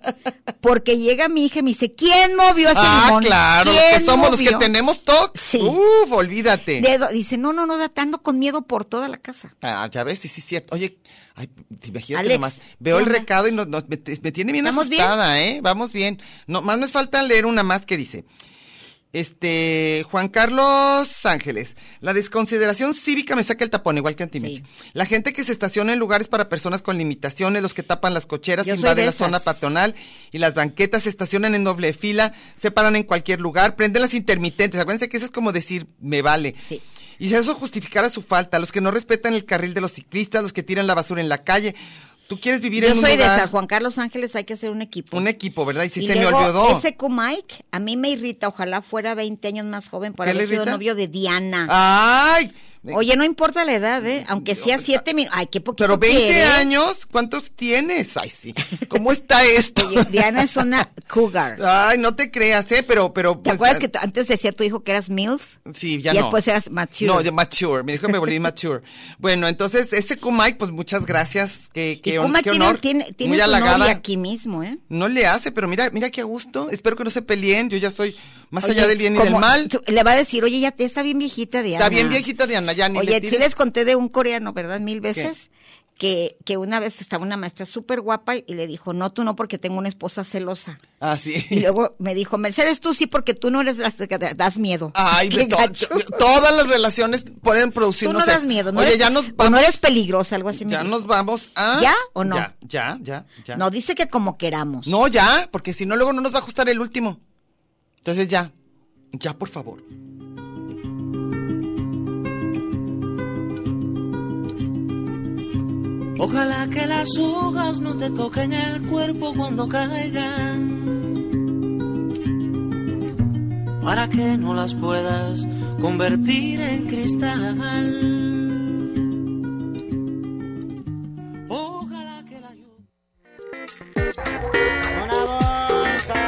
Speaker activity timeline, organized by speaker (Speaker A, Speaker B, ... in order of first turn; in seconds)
Speaker A: 0.6-4.7, 5.3-5.8, 6.8-9.5, 12.1-13.3, 14.6-15.1, 24.4-24.6, 28.6-29.6, 42.7-45.2, 46.0-51.7, 52.9-56.7, 59.7-61.6, 63.4-65.6, 66.1-67.3, 72.0-74.8, 78.6-82.2, 82.9-85.5, 86.0-90.8, 91.5-96.2, 98.0-100.9, 101.7-102.5, 103.5-104.9
Speaker B: 2.7-6.9, 9.6-18.2, 19.1-36.6, 37.2-41.8, 42.3-43.5, 45.1-46.9, 50.2-50.8, 51.7-53.0, 54.0-54.9, 55.8-60.7, 61.5-63.8, 65.7-66.4, 67.0-74.0, 74.9-79.7, 81.8-83.5, 91.0-91.7, 94.9-99.8, 100.5-103.6, 104.8-107.2, 108.0-108.5, 109.1-109.8
Speaker C: 116.2-121.2, 123.8-128.8, 131.5-132.8